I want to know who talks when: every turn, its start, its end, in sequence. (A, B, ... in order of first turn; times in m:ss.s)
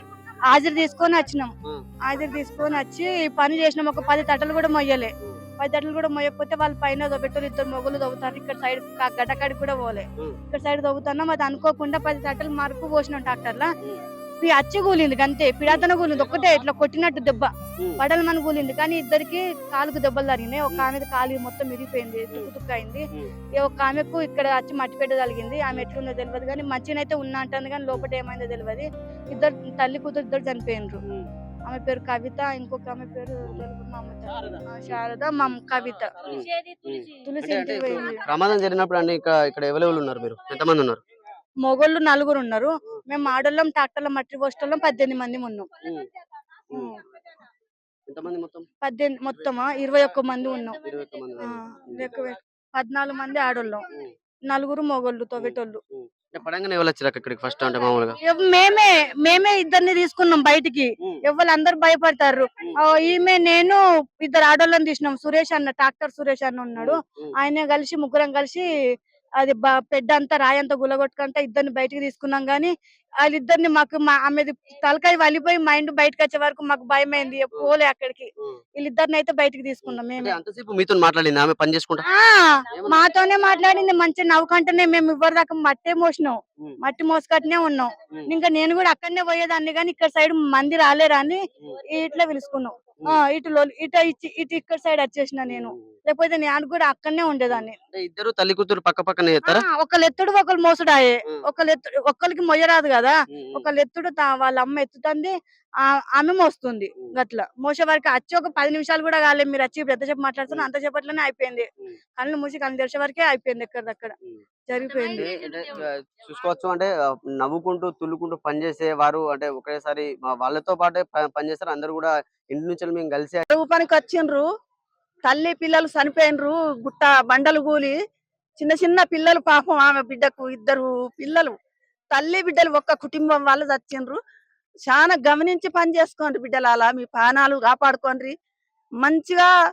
0:00.5-0:01.5 A
0:02.1-0:13.7 A
0:14.4-0:23.0 A
0:23.6-0:31.0 A
0:31.7-0:36.1 A
0:34.4-0:35.5 B
0:36.3-0:41.0 B
0:37.2-0:38.2 A
0:41.6-0:45.7 A
0:48.1-0:48.7 B
0:48.8-0:50.8 A
0:50.8-0:52.1 B
0:51.4-0:53.8 A
0:54.5-0:55.8 A
0:55.4-0:58.2 B
0:58.2-1:08.7 A
1:06.8-1:07.3 B
1:09.4-1:20.4 A
1:19.8-1:22.0 B
1:22.1-1:31.4 A
1:22.7-1:23.0 B
1:31.9-1:37.8 A
1:35.5-1:35.9 B
1:37.5-1:39.6 B
1:39.4-1:45.3 A
1:43.3-1:43.7 B
1:46.2-1:51.7 A
1:52.2-1:54.1 A
1:54.7-1:55.3 A
1:55.1-2:03.5 B
2:03.5-2:04.5 C
2:05.2-2:08.0 C
2:08.6-2:11.6 C
2:12.1-2:14.2 C
2:14.8-2:18.4 C
2:19.0-2:19.5 C